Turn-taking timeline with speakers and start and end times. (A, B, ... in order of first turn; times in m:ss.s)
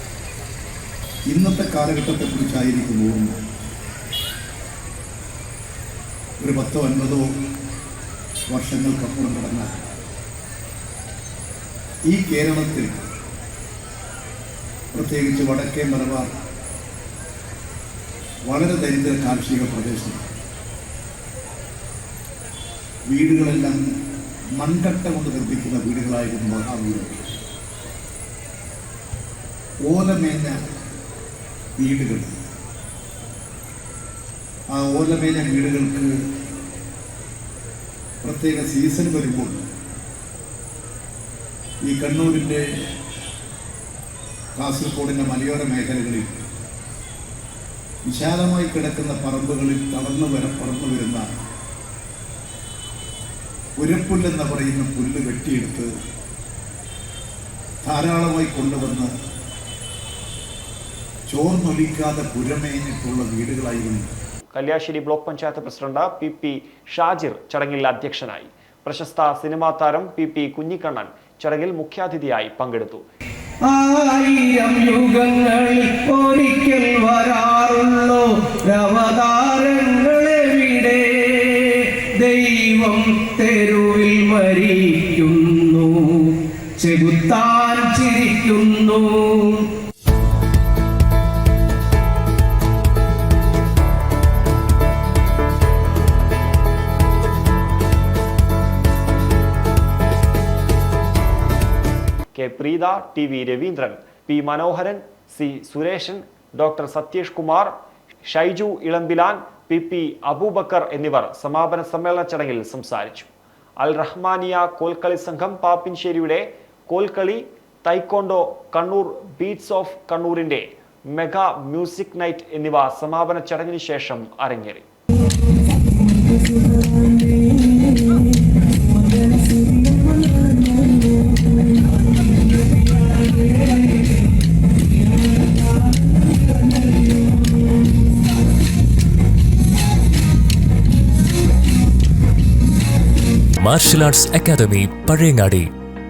0:01.3-0:03.4 A
0:06.4-0:07.3 A
0:08.5-0:09.8 A
0:12.1-0:13.0 A
0:14.9-0:16.3 A
0:18.5-0:20.2 A
0:23.1-0:23.8 A
0:24.6-0:27.3 A
0:29.9-0:30.6 A
0:31.8-0:32.4 A
0:34.7-0:36.2 A
0:38.2-0:39.6 A
0:41.8-0:42.7 A
0:44.6-0:46.4 A
0:48.1-0:51.3 A
0:53.8-0:55.9 A
0:57.8-0:59.1 A
1:01.3-1:04.1 A
1:04.6-1:13.0 B
1:13.6-1:29.7 C
1:42.3-1:47.7 B
1:48.2-2:04.9 B
2:07.2-2:08.2 C
2:09.6-2:10.8 C
2:23.6-2:25.7 D